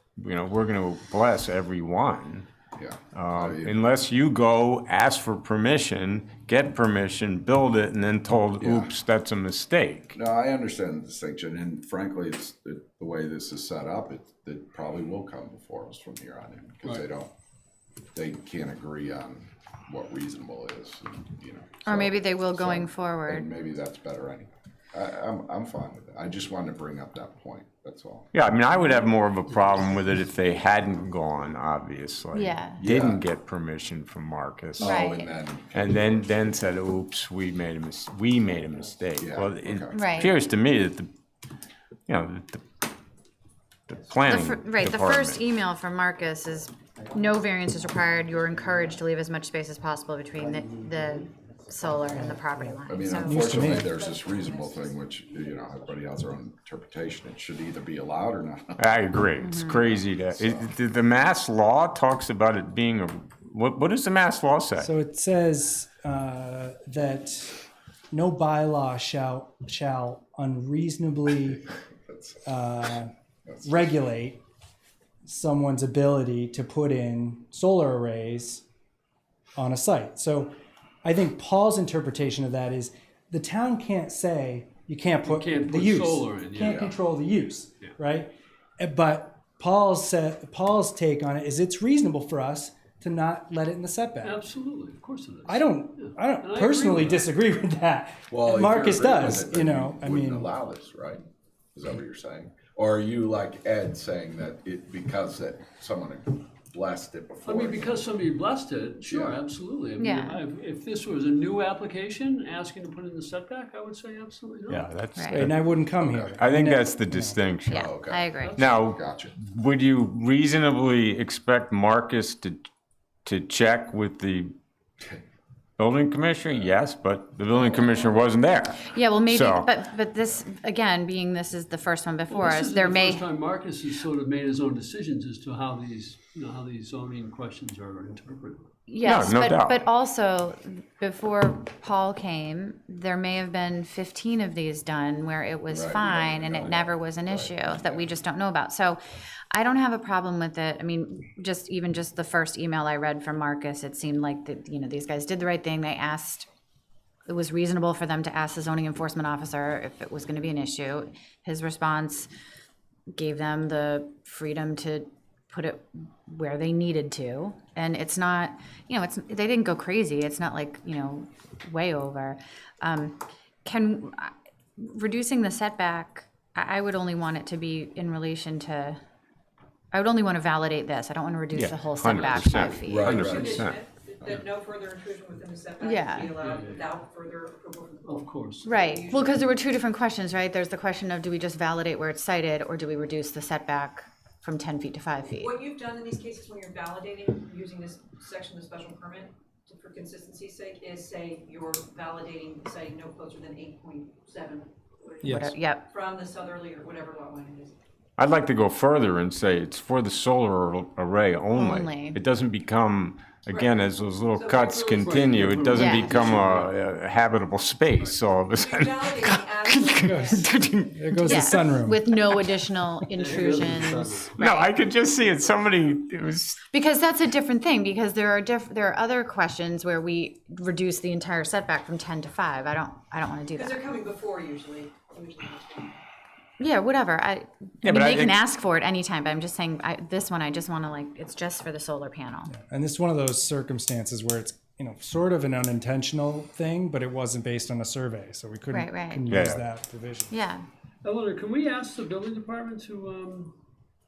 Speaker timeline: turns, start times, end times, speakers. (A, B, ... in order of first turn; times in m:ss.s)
0:00.2-0:02.5 A
0:02.8-0:03.8 B
0:03.1-0:10.2 A
0:08.6-0:08.9 B
0:10.1-0:17.3 B
0:18.1-0:28.3 B
0:21.8-0:23.4 C
0:28.3-0:35.0 A
0:32.3-0:32.8 C
0:32.8-0:33.2 B
0:34.8-0:35.3 C
0:34.8-0:36.3 B
0:35.7-0:41.1 A
0:39.2-0:40.0 B
0:39.9-0:40.3 C
0:42.1-0:42.6 A
0:43.9-0:45.4 A
0:44.2-0:53.8 C
0:52.1-0:52.4 D
0:52.9-0:58.9 B
0:53.1-0:53.9 D
0:53.8-0:55.6 E
0:58.8-1:04.9 A
0:59.4-0:59.9 C
0:59.7-1:00.7 B
1:04.8-1:11.6 D
1:11.5-1:12.4 B
1:12.4-1:13.1 D
1:13.4-1:13.9 B
1:13.6-1:14.4 D
1:15.2-1:18.6 D
1:19.6-1:34.4 D
1:25.2-1:26.9 F
1:26.6-1:26.9 B
1:34.2-1:37.2 F
1:35.4-1:40.5 D
1:38.3-1:41.2 B
1:41.7-1:48.1 B
1:47.4-1:54.9 F
1:49.1-1:49.4 B
1:50.0-1:50.4 C
1:54.7-1:55.7 A
1:55.1-1:55.5 C
1:55.3-1:57.4 D
1:56.0-1:56.4 B
1:56.4-1:57.9 A
1:57.7-1:58.6 C
1:57.7-1:59.3 B
1:58.4-1:58.8 F
1:58.6-2:02.6 A
2:03.2-2:04.5 A
2:05.8-2:09.7 A
2:07.5-2:08.2 B
2:08.8-2:13.2 C
2:12.3-2:18.7 F
2:18.9-2:29.0 C
2:19.0-2:19.8 A
2:25.7-2:28.1 B
2:29.5-2:36.5 C
2:37.3-2:42.3 C
2:43.1-2:59.0 C
2:59.9-3:03.2 C
3:01.5-3:03.8 A
3:02.8-3:03.7 B
3:02.9-3:09.5 E
3:03.2-3:03.5 F
3:05.8-3:06.3 C
3:06.4-3:06.9 F
3:08.0-3:08.7 F
3:08.6-3:15.5 C
3:15.4-3:27.7 E
3:25.2-3:25.6 D
3:25.2-3:25.8 C
3:28.2-3:41.6 A
3:31.5-3:32.2 C
3:33.5-3:35.4 E
3:35.0-3:36.7 F
3:35.7-3:36.2 C
3:38.5-3:40.6 E
3:40.0-3:43.0 D
3:41.2-3:44.8 C
3:43.1-3:44.4 F
3:43.6-3:43.8 D
3:44.4-3:46.6 A
3:46.7-3:53.8 C
3:53.5-3:56.0 E
3:56.6-4:02.5 C
3:57.8-3:58.4 A
4:02.5-4:10.4 D
4:08.7-4:09.3 C
4:09.3-4:09.6 A
4:10.3-4:10.6 C
4:11.0-4:13.5 F